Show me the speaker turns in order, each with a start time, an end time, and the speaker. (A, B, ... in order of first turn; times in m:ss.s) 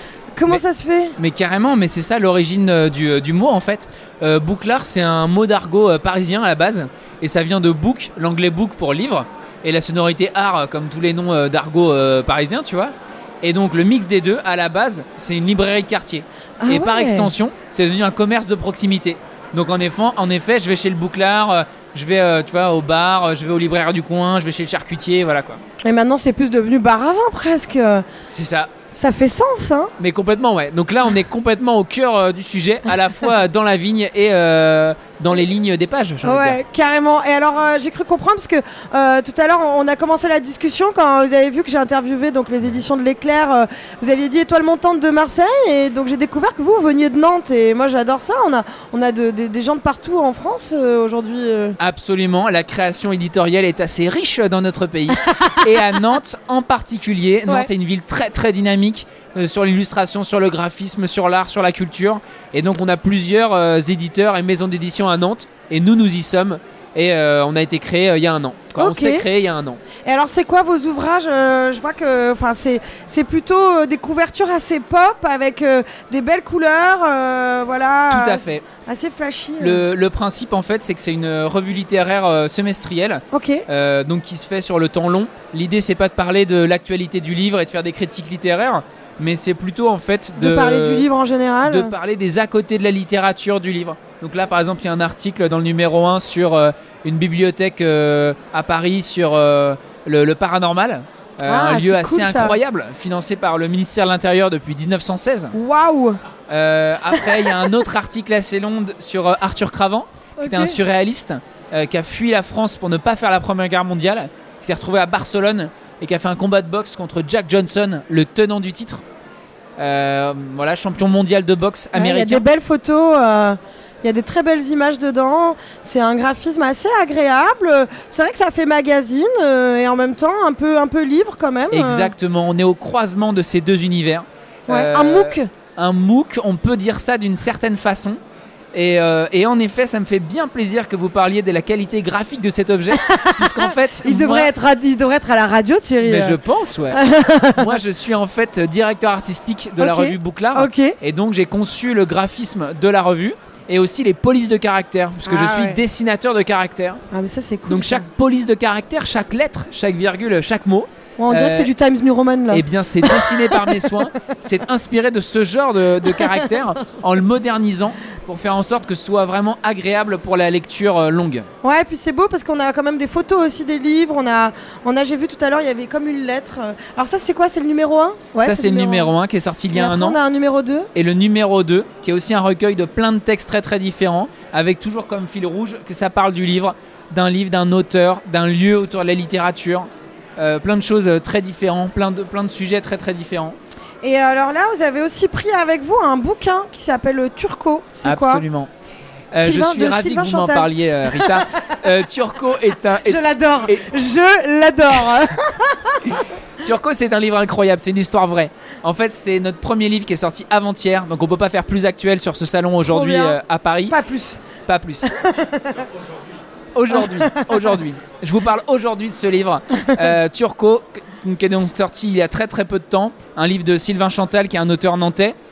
0:00.3-0:01.2 A
0:01.2-0:25.6 B
0:16.6-0:17.3 A
0:25.8-0:28.1 A
0:28.3-0:28.7 B
0:29.0-0:29.9 A
0:30.0-0:36.6 B
0:36.2-0:51.8 A
0:51.8-1:09.8 B
0:55.3-0:55.6 A
1:08.8-1:09.2 A
1:10.0-1:19.8 A
1:18.1-1:18.6 B
1:19.6-1:31.1 B
1:23.3-1:23.6 A
1:30.4-1:31.9 A
1:31.6-1:45.5 B
1:41.4-1:42.6 A
1:45.5-1:46.2 A
1:46.5-1:59.0 B
1:50.4-1:50.8 A
1:59.8-2:02.4 B
2:01.9-2:12.1 A
2:11.7-2:18.2 B
2:14.7-2:15.5 A
2:18.7-2:24.5 B
2:22.9-2:26.4 A
2:26.0-2:27.0 B
2:26.9-2:27.7 A
2:27.5-2:37.0 B
2:29.8-2:31.0 A
2:35.2-2:35.8 A
2:37.1-2:38.0 A
2:37.7-2:41.7 B
2:41.2-2:44.0 A
2:42.5-2:51.5 B
2:46.1-2:46.3 A
2:51.6-2:59.1 A
2:58.4-3:00.2 B
2:59.7-3:00.9 A
3:00.9-3:13.6 B
3:14.0-3:18.4 A
3:18.0-3:18.7 B
3:19.3-3:23.9 B
3:19.4-3:21.8 A
3:23.0-3:26.2 A
3:26.2-3:34.0 B
3:32.8-3:33.4 A
3:33.9-3:34.4 A
3:34.6-3:35.1 B
3:35.0-3:35.8 A
3:36.7-3:45.3 B
3:37.0-3:37.5 A